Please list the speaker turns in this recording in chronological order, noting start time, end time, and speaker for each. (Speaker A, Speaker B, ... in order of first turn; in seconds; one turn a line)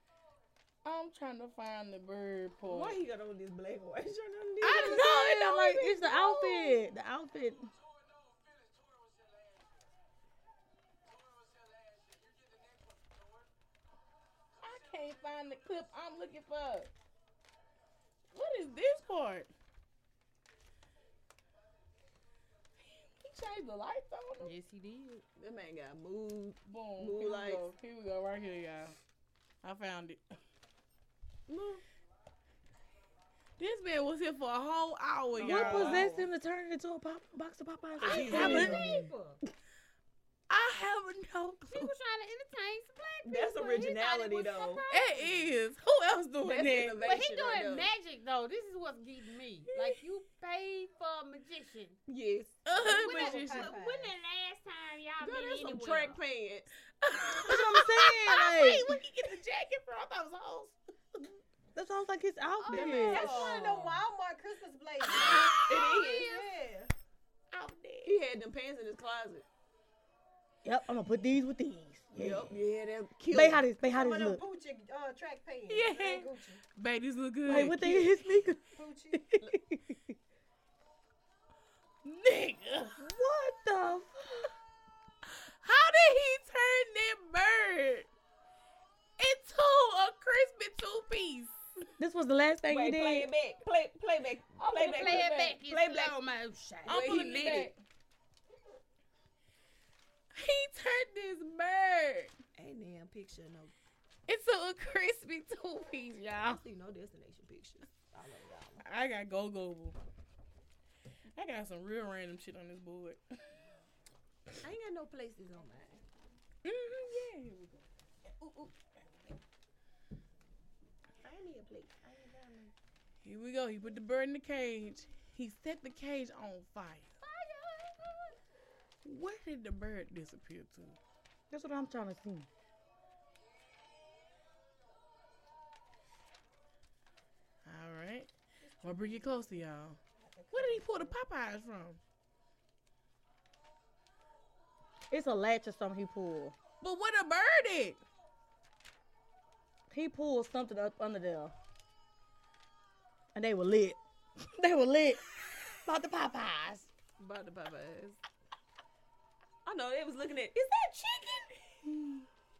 Speaker A: 0.8-3.0
Speaker B: 2.6-5.0
Speaker A: 4.6-6.8
Speaker C: 4.8-7.7
Speaker A: 14.6-16.9
Speaker A: 18.3-19.5
Speaker A: 22.8-24.5
Speaker D: 24.4-25.2
Speaker B: 25.4-27.7
Speaker A: 26.6-28.9
Speaker A: 29.6-30.2
Speaker B: 31.5-31.8
Speaker A: 33.6-36.1
Speaker B: 35.3-36.2
Speaker C: 35.4-39.0
Speaker B: 38.0-38.9
Speaker D: 38.0-39.4
Speaker A: 38.2-38.9
Speaker A: 40.5-41.9
Speaker D: 41.6-45.5
Speaker B: 43.2-44.8
Speaker A: 44.9-47.1
Speaker B: 46.4-47.9
Speaker D: 47.0-52.0
Speaker A: 49.7-50.0
Speaker B: 52.1-53.2
Speaker A: 52.6-53.7
Speaker E: 52.8-54.1
Speaker D: 52.8-56.2
Speaker B: 55.2-56.7
Speaker A: 57.0-60.8
Speaker C: 57.4-59.0
Speaker C: 61.7-63.3
Speaker D: 62.6-64.0
Speaker B: 62.7-64.0
Speaker E: 62.8-66.9
Speaker A: 65.1-65.7
Speaker B: 65.2-66.5
Speaker A: 67.5-68.1
Speaker B: 68.0-69.4
Speaker C: 70.6-72.5
Speaker B: 72.2-73.6
Speaker C: 73.3-74.4
Speaker E: 73.9-76.6
Speaker A: 75.7-78.1
Speaker C: 77.5-78.6
Speaker E: 78.7-79.2
Speaker C: 79.1-80.1
Speaker A: 82.0-83.0
Speaker C: 83.0-84.5
Speaker A: 85.3-88.1
Speaker A: 89.2-91.6
Speaker C: 92.0-93.3
Speaker B: 92.7-96.2
Speaker A: 94.6-95.5
Speaker D: 94.7-97.4
Speaker B: 96.9-97.7
Speaker A: 96.9-97.8
Speaker A: 100.3-102.3
Speaker B: 102.5-103.7
Speaker A: 104.3-106.6
Speaker B: 106.5-108.8
Speaker A: 108.8-110.0
Speaker A: 111.3-113.2
Speaker B: 114.6-116.0
Speaker A: 116.6-117.8
Speaker A: 118.4-118.7
Speaker B: 121.2-122.7
Speaker A: 123.2-127.1
Speaker D: 127.2-128.3
Speaker A: 129.0-131.0
Speaker C: 131.5-132.5
Speaker A: 137.6-138.3
Speaker E: 138.7-139.5
Speaker A: 138.8-140.0
Speaker E: 140.2-141.2
Speaker A: 140.5-142.0
Speaker C: 145.1-146.6
Speaker A: 146.8-148.0
Speaker C: 149.9-151.5
Speaker C: 153.3-155.2
Speaker C: 155.8-156.9
Speaker B: 157.2-158.2
Speaker B: 159.6-161.5